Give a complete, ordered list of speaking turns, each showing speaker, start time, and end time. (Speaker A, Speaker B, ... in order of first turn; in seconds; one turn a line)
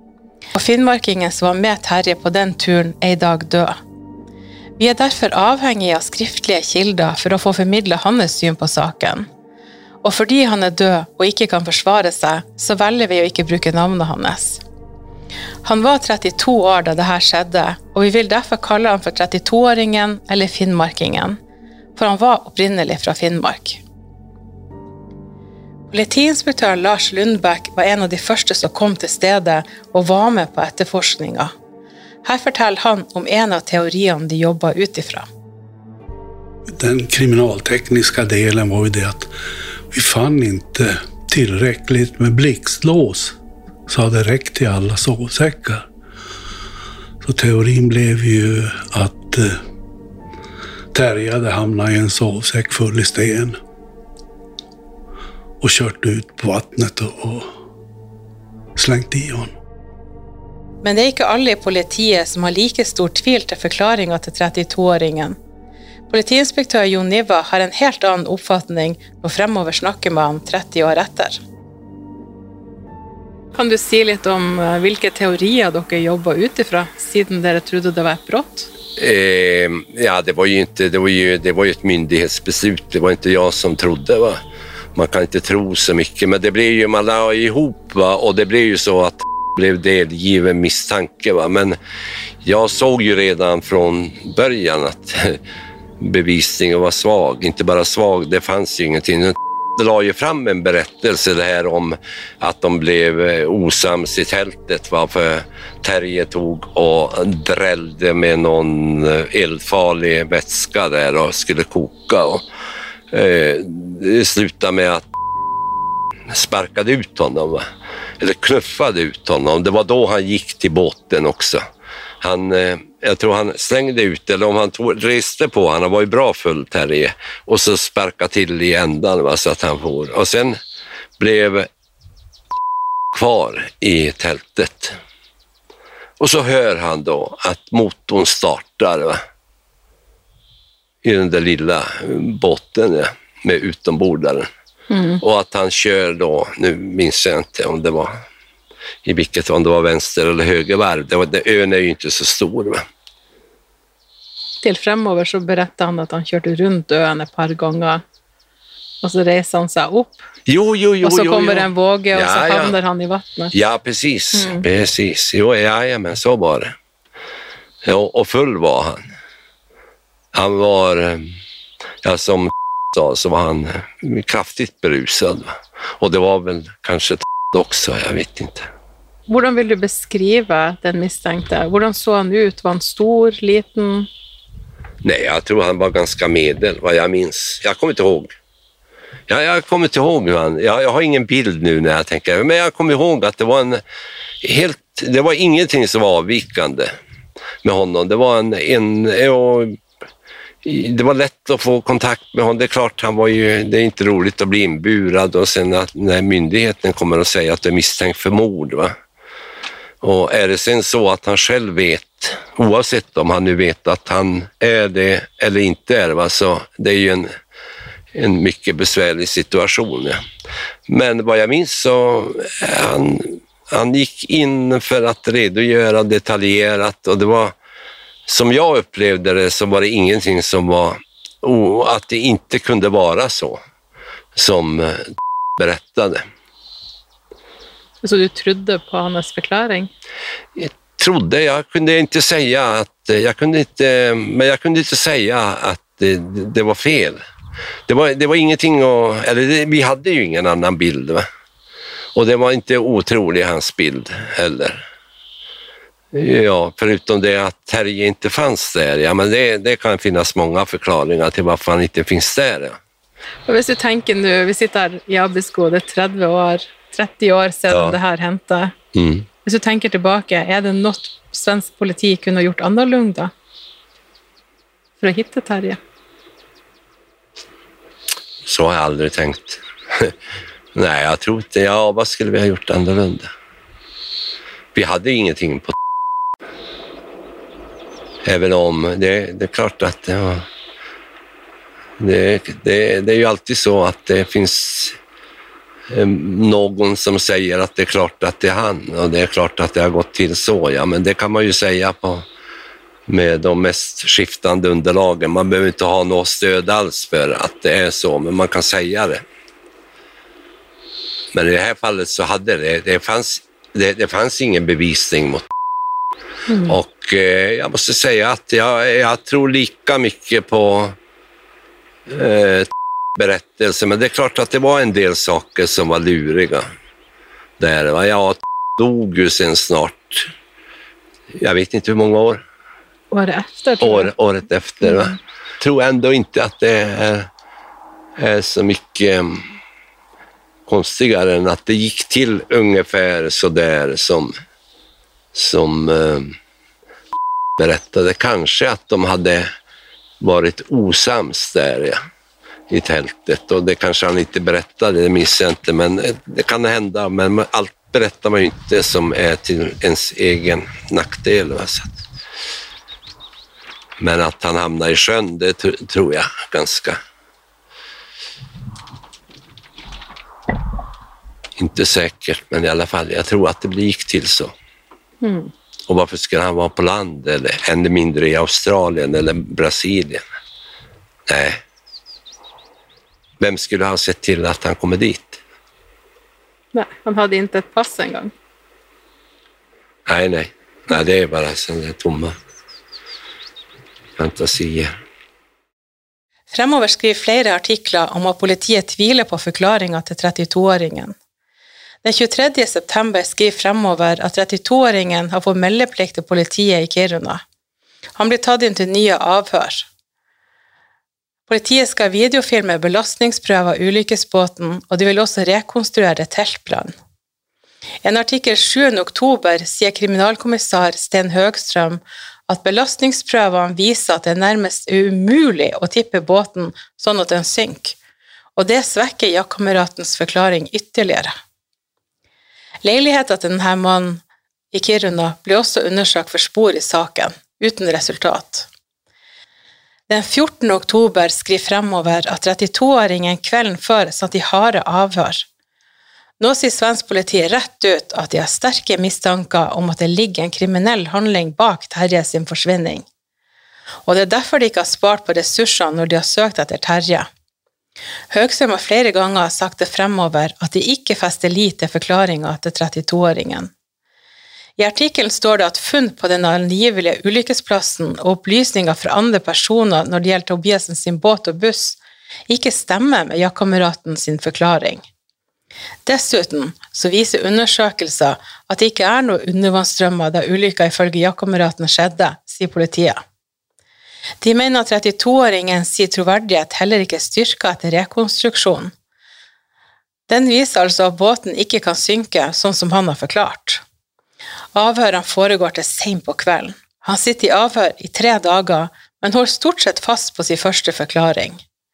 Speaker A: 0.5-3.8
Speaker A: 4.8-9.3
Speaker A: 10.0-14.6
Speaker A: 15.6-21.4
Speaker A: 21.9-23.8
Speaker A: 25.9-31.5
Speaker A: 32.2-35.3
Speaker B: 36.8-39.3
Speaker B: 39.9-43.3
Speaker B: 43.9-45.9
Speaker B: 47.2-49.6
Speaker B: 50.9-53.6
Speaker B: 55.6-57.5
Speaker B: 58.8-59.5
Speaker A: 60.8-65.4
Speaker A: 66.1-71.4
Speaker A: 73.5-78.7
Speaker C: 79.0-84.4
Speaker C: 84.9-91.8
Speaker C: 92.4-95.4
Speaker C: 96.0-112.4
Speaker C: 113.1-115.0
Speaker C: 116.3-117.7
Speaker C: 118.2-121.6
Speaker C: 122.2-130.6
Speaker C: 131.2-131.7
Speaker C: 133.1-134.9
Speaker C: 136.2-139.2
Speaker C: 141.0-144.5
Speaker A: 144.9-145.2
Speaker C: 145.2-148.2
Speaker C: 149.0-152.8
Speaker A: 154.6-158.0
Speaker A: 159.0-160.3
Speaker C: 160.5-162.8
Speaker A: 161.0-163.5
Speaker C: 163.5-166.7
Speaker A: 164.3-164.6
Speaker C: 167.8-169.0
Speaker C: 170.3-171.3
Speaker C: 172.0-178.7
Speaker A: 179.3-184.1
Speaker C: 185.0-188.3
Speaker C: 189.3-193.8
Speaker C: 194.4-196.9
Speaker C: 197.6-199.8
Speaker C: 200.6-208.9
Speaker C: 210.0-217.3
Speaker C: 218.1-220.2
Speaker C: 220.9-227.5
Speaker C: 228.3-233.6
Speaker C: 234.3-236.2
Speaker A: 238.0-239.9
Speaker C: 240.6-247.2
Speaker C: 247.9-251.2
Speaker C: 252.1-254.8
Speaker C: 256.1-262.8
Speaker A: 263.5-268.7
Speaker C: 267.7-268.0
Speaker C: 268.9-269.3
Speaker A: 269.4-273.3
Speaker A: 275.0-275.8
Speaker C: 278.4-280.1
Speaker C: 280.7-283.3
Speaker C: 284.7-285.7
Speaker C: 288.2-290.4
Speaker C: 292.0-294.9
Speaker C: 295.9-302.2
Speaker C: 303.1-309.2
Speaker C: 311.3-315.5
Speaker A: 316.5-316.7
Speaker C: 316.6-320.9
Speaker C: 322.1-326.7
Speaker C: 327.6-330.3
Speaker C: 331.4-332.4
Speaker A: 333.1-334.1
Speaker C: 333.8-337.3
Speaker A: 334.8-335.1
Speaker C: 338.2-339.5
Speaker C: 340.7-344.3
Speaker C: 345.3-346.3
Speaker C: 347.6-349.5
Speaker C: 350.2-352.0
Speaker C: 352.7-362.0
Speaker C: 364.0-367.0
Speaker C: 371.6-374.5
Speaker A: 375.2-375.5
Speaker C: 375.9-380.2
Speaker C: 381.3-381.6
Speaker C: 383.4-385.4
Speaker A: 386.7-388.3
Speaker C: 390.1-392.3
Speaker C: 394.2-394.9
Speaker A: 396.5-401.1
Speaker A: 402.0-407.4
Speaker A: 408.1-409.9
Speaker A: 411.5-416.9
Speaker A: 418.0-428.0
Speaker A: 428.6-431.3
Speaker A: 432.8-438.7
Speaker A: 440.1-445.4
Speaker A: 446.4-453.1
Speaker A: 454.1-457.3
Speaker A: 458.3-463.7
Speaker A: 464.8-472.0
Speaker A: 472.5-475.0
Speaker A: 476.1-483.2
Speaker A: 484.4-488.9
Speaker A: 490.3-493.8
Speaker A: 494.7-501.6